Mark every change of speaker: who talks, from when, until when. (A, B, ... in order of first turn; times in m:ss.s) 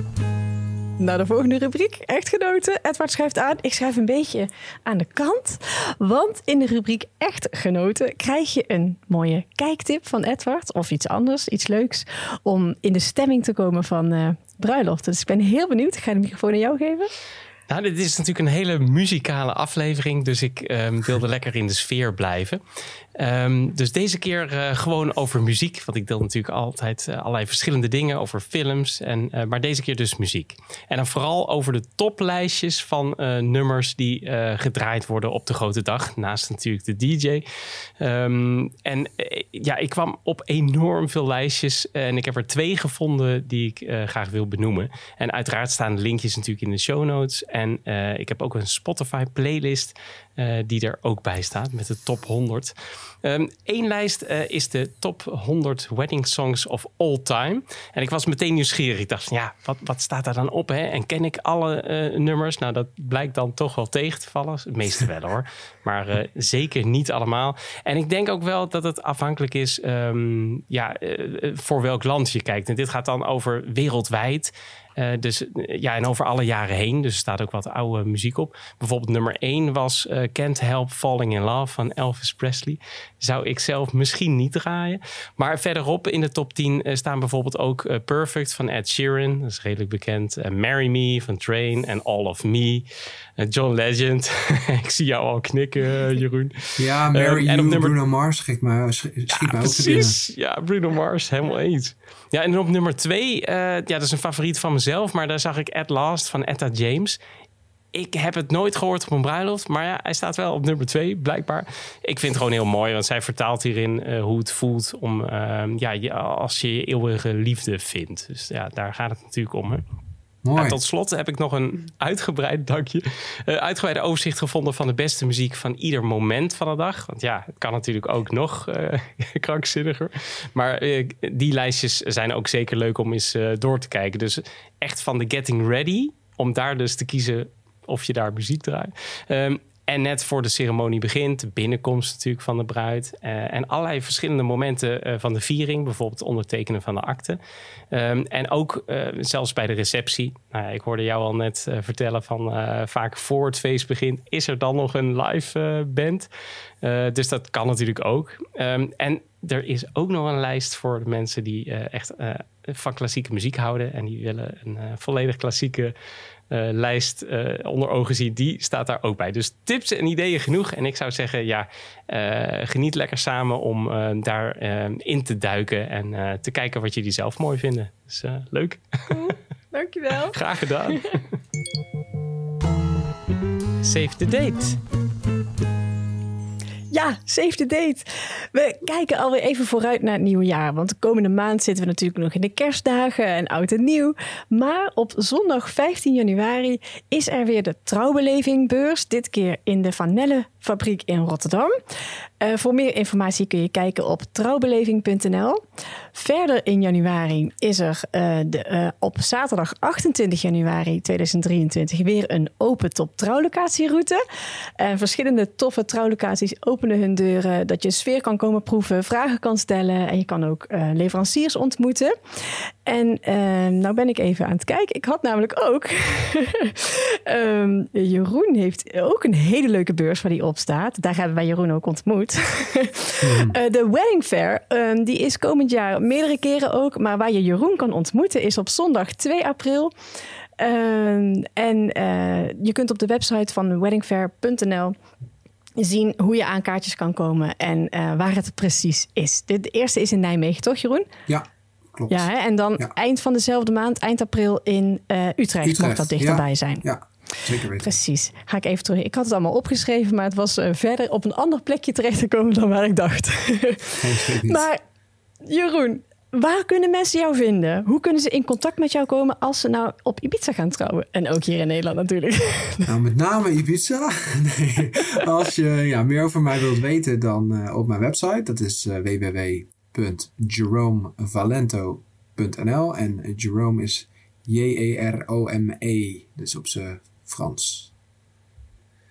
0:01.0-0:17.1 A
0:17.7-0:22.6 B
0:23.2-0:37.4 B
0:38.0-1:32.9 B
1:33.4-1:37.9 B
1:36.8-1:40.2 C
1:39.3-1:47.2 B
1:47.9-1:59.8 B
2:00.4-2:00.8 C
2:00.6-2:27.4 B
2:27.9-2:36.3 B
2:36.8-2:46.0 B
2:46.5-2:59.2 B
2:59.1-3:01.2 A
3:00.3-3:01.2 B
3:03.8-3:04.8 B
3:06.9-3:21.8 A
3:22.4-3:25.6 A
3:26.1-3:34.2 A
3:34.8-3:59.9 A
3:53.2-3:53.6 C
4:00.6-4:05.0 A
4:05.8-4:11.1 A
4:11.3-4:12.9 C
4:12.1-4:16.8 A
4:15.6-4:18.0 C
4:17.8-4:24.8 A
4:24.0-4:24.6 C
4:25.5-4:32.9 A
4:32.9-4:47.9 C